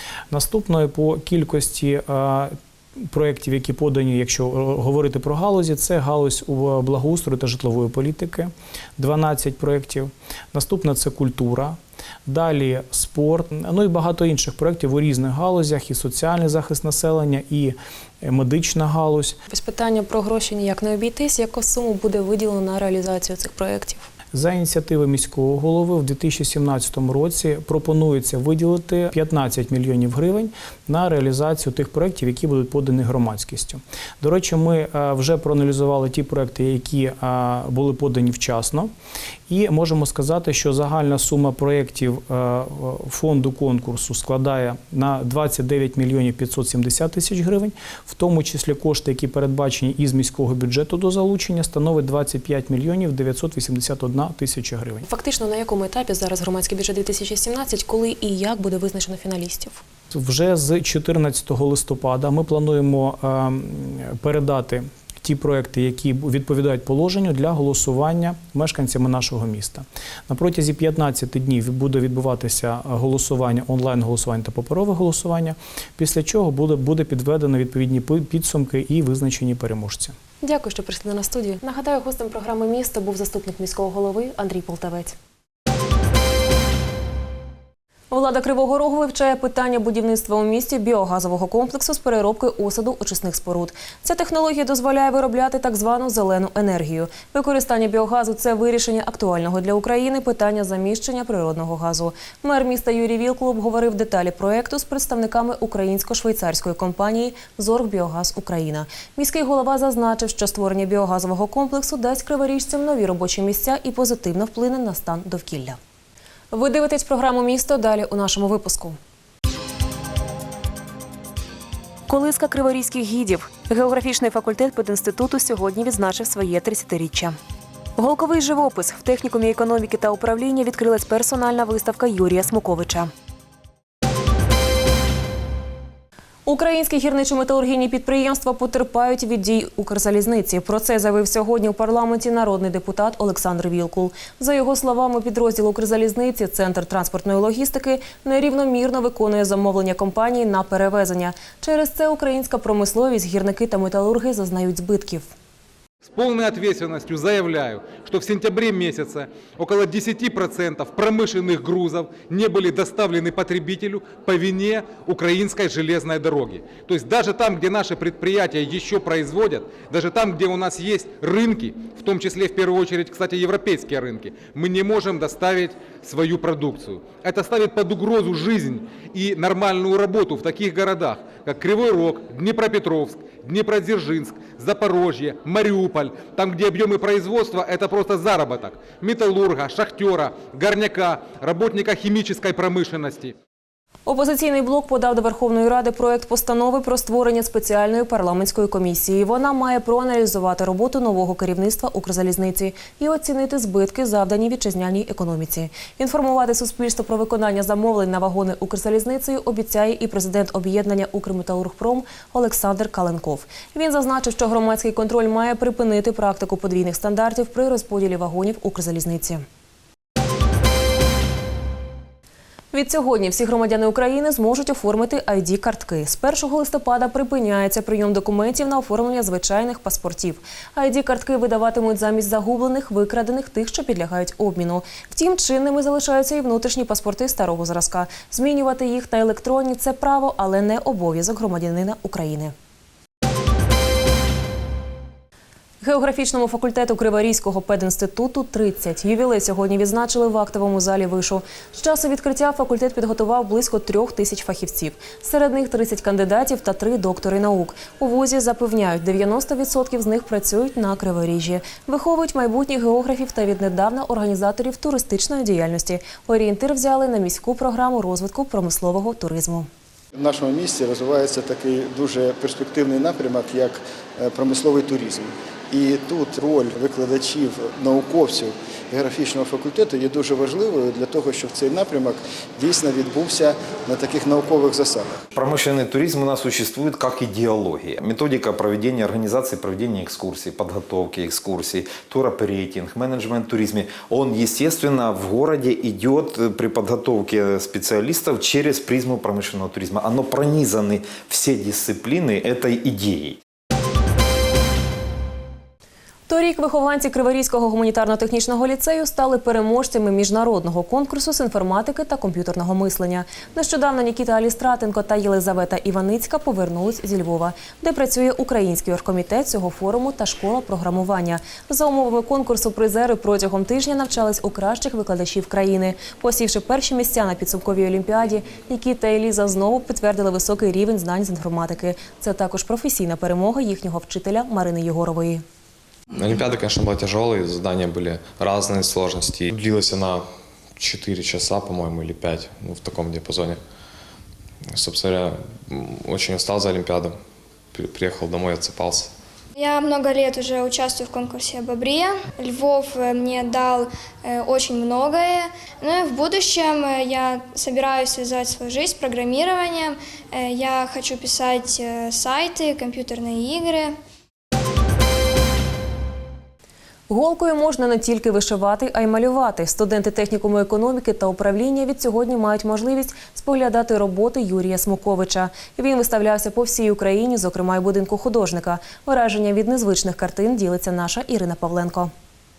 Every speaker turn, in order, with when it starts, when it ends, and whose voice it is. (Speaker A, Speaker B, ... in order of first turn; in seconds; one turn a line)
Speaker A: 0.3-19.4
Speaker B: 19.5-24.1
Speaker A: 24.3-38.9
Speaker A: 39.5-55.0
Speaker B: 55.0-59.8
Speaker A: 60.1-80.2
Speaker B: 80.4-85.2
Speaker B: 88.1-115.8
Speaker B: 116.5-119.0
Speaker B: 122.1-127.4
Speaker B: 128.0-133.1
Speaker B: 136.5-155.3
Speaker C: 156.0-193.3
Speaker B: 194.1-219.4
Speaker B: 222.7-242.5
Speaker B: 245.8-269.7
Speaker D: 270.2-278.5
Speaker D: 279.1-279.6
Speaker D: 282.6-285.2
Speaker E: 285.3-303.4
Speaker B: 306.3-335.4
Speaker F: 336.1-343.6
Speaker F: 344.7-347.2
Speaker F: 347.7-349.1
Speaker G: 349.6-364.0
Speaker B: 367.1-382.1